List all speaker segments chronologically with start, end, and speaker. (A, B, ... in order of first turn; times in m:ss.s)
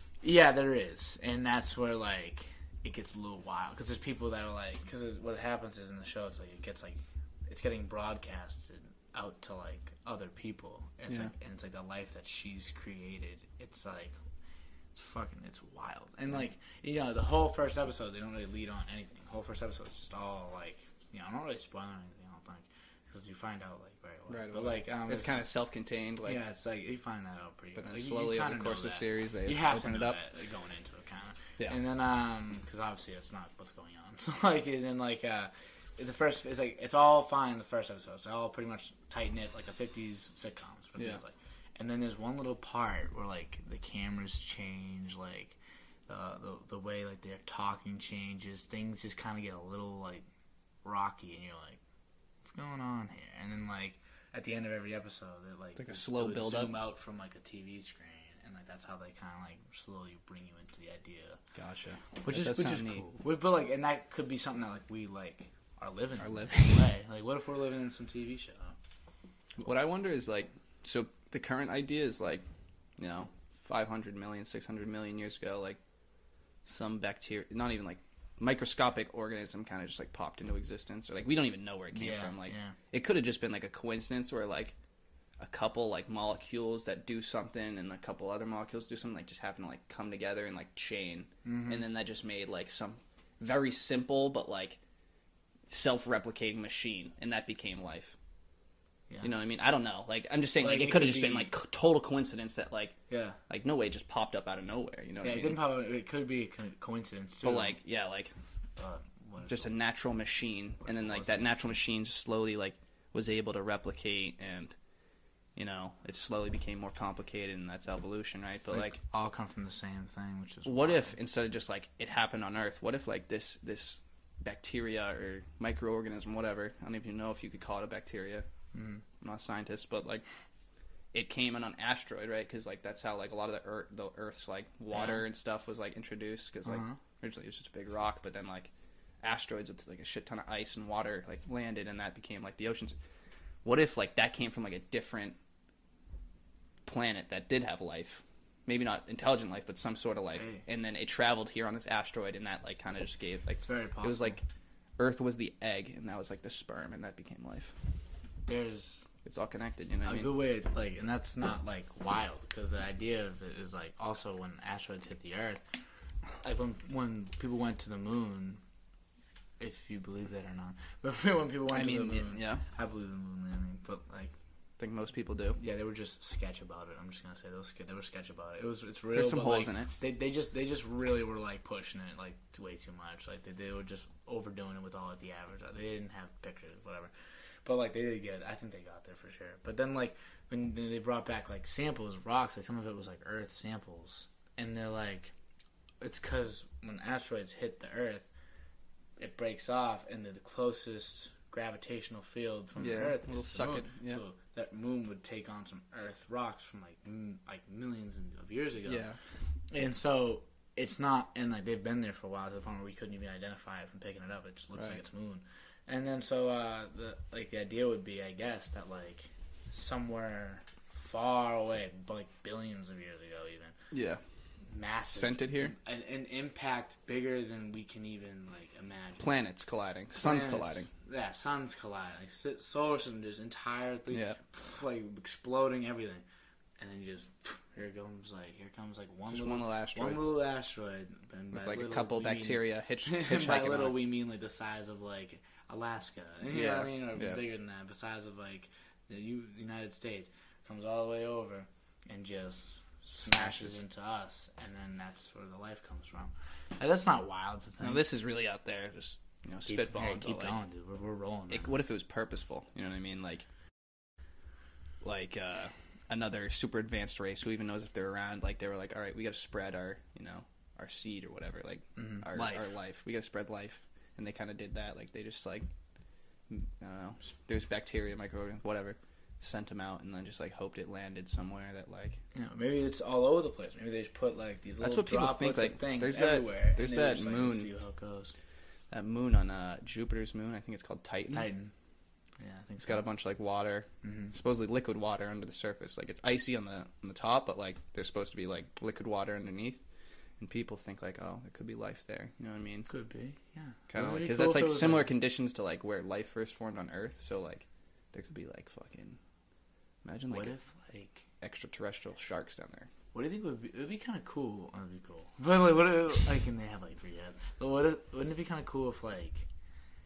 0:00.2-0:14.2 A
0:14.9-0:25.4 A
0:24.3-0:26.4 B
0:26.2-0:50.2 A
0:27.8-0:30.2 B
0:50.8-0:51.8 A
0:52.4-1:01.4 A
0:55.8-0:56.8 B
1:01.6-1:03.1 B
1:02.2-1:08.8 A
1:06.2-1:06.9 B
1:09.6-1:12.4 B
1:13.0-1:15.8 B
1:16.6-1:24.8 B
1:22.0-1:22.8 A
1:25.4-1:34.8 B
1:31.4-1:31.8 A
1:35.7-1:38.2 B
1:39.2-1:43.0 B
1:40.6-1:41.5 A
1:43.1-1:43.4 A
1:43.5-1:45.6 B
1:45.2-1:47.8 A
1:47.4-1:48.3 B
1:48.8-1:49.7 A
1:49.5-1:54.8 B
1:50.8-1:51.5 A
1:55.6-1:59.0 B
1:58.7-2:01.2 A
2:00.7-2:08.5 B
2:08.7-2:09.0 A
2:09.2-2:10.2 B
2:11.1-2:23.0 B
2:14.9-2:15.2 A
2:16.7-2:17.0 A
2:23.6-2:25.4 B
2:26.8-2:34.4 B
2:30.4-2:30.6 A
2:33.6-2:34.4 A
2:35.0-2:37.8 B
2:38.4-2:39.1 A
2:39.2-2:40.4 B
2:40.0-2:45.6 A
2:46.4-2:48.6 A
2:49.6-2:54.4 A
2:51.7-2:52.6 B
2:54.8-2:55.6 B
2:55.6-3:07.1 A
2:59.1-2:59.9 B
3:07.6-3:15.3 A
3:16.0-3:18.3 A
3:19.2-3:29.1 A
3:22.8-3:24.2 B
3:28.9-3:29.2 B
3:29.7-3:43.7 A
3:43.9-3:44.2 B
3:44.7-3:49.3 A
3:45.0-3:45.7 B
3:49.2-3:50.9 B
3:50.2-3:56.2 A
3:54.1-3:54.4 B
3:56.8-4:18.0 A
3:59.3-4:00.4 B
4:01.5-4:04.0 B
4:06.5-4:07.4 B
4:13.2-4:13.8 B
4:17.8-4:20.6 B
4:19.7-4:21.8 A
4:21.5-4:23.5 B
4:25.0-4:35.7 B
4:32.0-4:32.7 A
4:36.5-4:42.2 B
4:42.3-4:48.3 A
4:44.8-4:47.7 B
4:48.9-4:51.5 B
4:51.3-4:51.7 A
4:52.4-4:53.1 A
4:52.8-4:59.8 B
4:54.0-4:54.3 A
5:00.4-5:02.9 B
5:02.9-5:05.1 A
5:03.9-5:09.2 B
5:10.0-5:10.6 B
5:10.3-5:11.2 A
5:11.4-5:12.9 B
5:13.1-5:19.5 A